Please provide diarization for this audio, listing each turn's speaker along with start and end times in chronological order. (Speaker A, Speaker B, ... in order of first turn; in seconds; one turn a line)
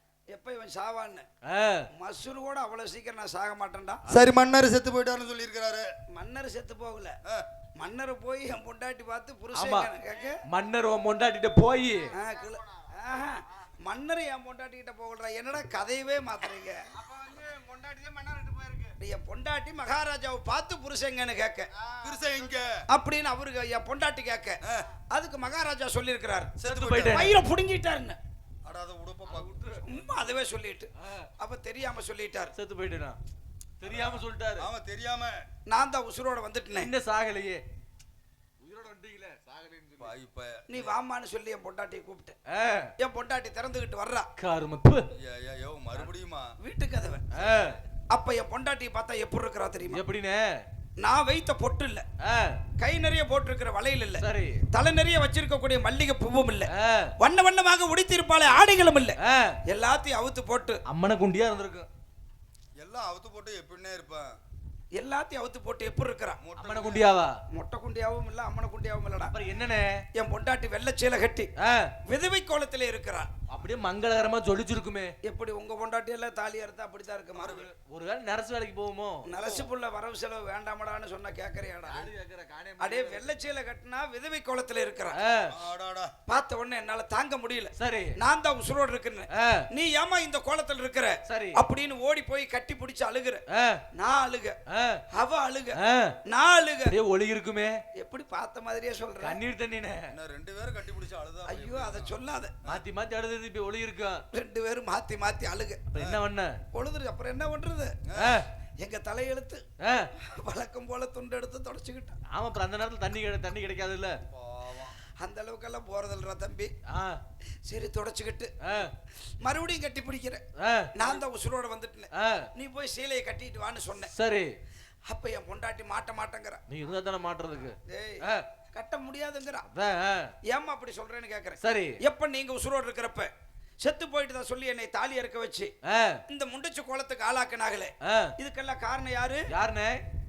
Speaker A: 0.3-1.3
Speaker B: 1.4-1.9
Speaker A: 1.9-4.0
Speaker C: 4.1-5.8
Speaker A: 6.1-7.2
Speaker A: 7.8-10.4
Speaker B: 9.5-9.9
Speaker B: 10.5-12.1
Speaker A: 12.1-16.9
Speaker B: 17.4-18.7
Speaker A: 19.0-21.7
Speaker C: 22.0-22.8
Speaker A: 22.9-24.6
Speaker A: 25.1-26.5
Speaker C: 26.6-27.2
Speaker B: 26.6-27.4
Speaker A: 27.1-28.2
Speaker C: 28.6-29.8
Speaker B: 29.3-29.9
Speaker A: 29.8-32.5
Speaker B: 32.6-33.2
Speaker B: 33.8-34.7
Speaker C: 33.8-35.4
Speaker A: 35.7-36.9
Speaker B: 36.8-37.6
Speaker B: 38.6-40.1
Speaker C: 40.0-40.9
Speaker A: 40.7-42.3
Speaker B: 42.5-42.9
Speaker A: 43.0-44.3
Speaker B: 44.4-45.1
Speaker C: 45.1-46.5
Speaker A: 46.6-47.5
Speaker B: 47.3-47.8
Speaker A: 48.1-50.0
Speaker B: 49.9-50.6
Speaker A: 51.0-52.1
Speaker B: 52.2-52.6
Speaker A: 52.8-56.7
Speaker B: 54.2-54.6
Speaker B: 56.7-57.1
Speaker A: 57.2-59.1
Speaker B: 59.2-59.6
Speaker A: 59.7-60.8
Speaker B: 60.9-61.9
Speaker C: 62.8-64.3
Speaker A: 65.0-66.4
Speaker C: 66.4-67.1
Speaker B: 66.6-67.3
Speaker A: 67.5-69.3
Speaker B: 69.3-69.9
Speaker A: 70.1-71.5
Speaker B: 71.6-71.9
Speaker A: 72.1-73.3
Speaker B: 73.5-75.1
Speaker A: 75.2-77.6
Speaker B: 77.4-79.2
Speaker A: 79.3-82.1
Speaker C: 79.4-79.7
Speaker B: 81.9-83.3
Speaker A: 82.8-85.2
Speaker B: 85.1-85.5
Speaker C: 85.5-86.1
Speaker A: 86.3-93.4
Speaker B: 87.8-88.1
Speaker B: 89.3-89.6
Speaker B: 91.3-91.6
Speaker B: 93.5-93.8
Speaker A: 94.0-94.6
Speaker B: 94.7-95.0
Speaker A: 95.1-96.9
Speaker B: 95.8-96.2
Speaker B: 96.9-97.8
Speaker A: 98.0-99.4
Speaker B: 99.2-100.1
Speaker C: 100.1-102.1
Speaker A: 101.5-102.6
Speaker B: 102.7-104.2
Speaker A: 104.3-105.9
Speaker B: 105.9-106.6
Speaker A: 106.7-108.0
Speaker C: 108.1-108.4
Speaker B: 108.2-108.5
Speaker A: 108.8-109.6
Speaker B: 109.8-110.1
Speaker A: 110.2-112.2
Speaker B: 112.3-114.2
Speaker C: 114.3-114.9
Speaker A: 115.2-116.7
Speaker B: 116.9-117.2
Speaker A: 117.7-118.5
Speaker B: 118.6-118.9
Speaker A: 119.4-120.4
Speaker B: 120.6-120.9
Speaker A: 120.9-124.1
Speaker B: 122.1-122.5
Speaker B: 124.1-124.5
Speaker A: 125.1-126.6
Speaker B: 126.7-128.4
Speaker A: 127.9-129.7
Speaker B: 129.7-130.3
Speaker A: 130.5-133.3
Speaker B: 131.6-132.0
Speaker A: 133.8-135.7
Speaker B: 135.8-136.2
Speaker A: 136.3-139.4
Speaker B: 138.0-138.3
Speaker B: 139.5-140.0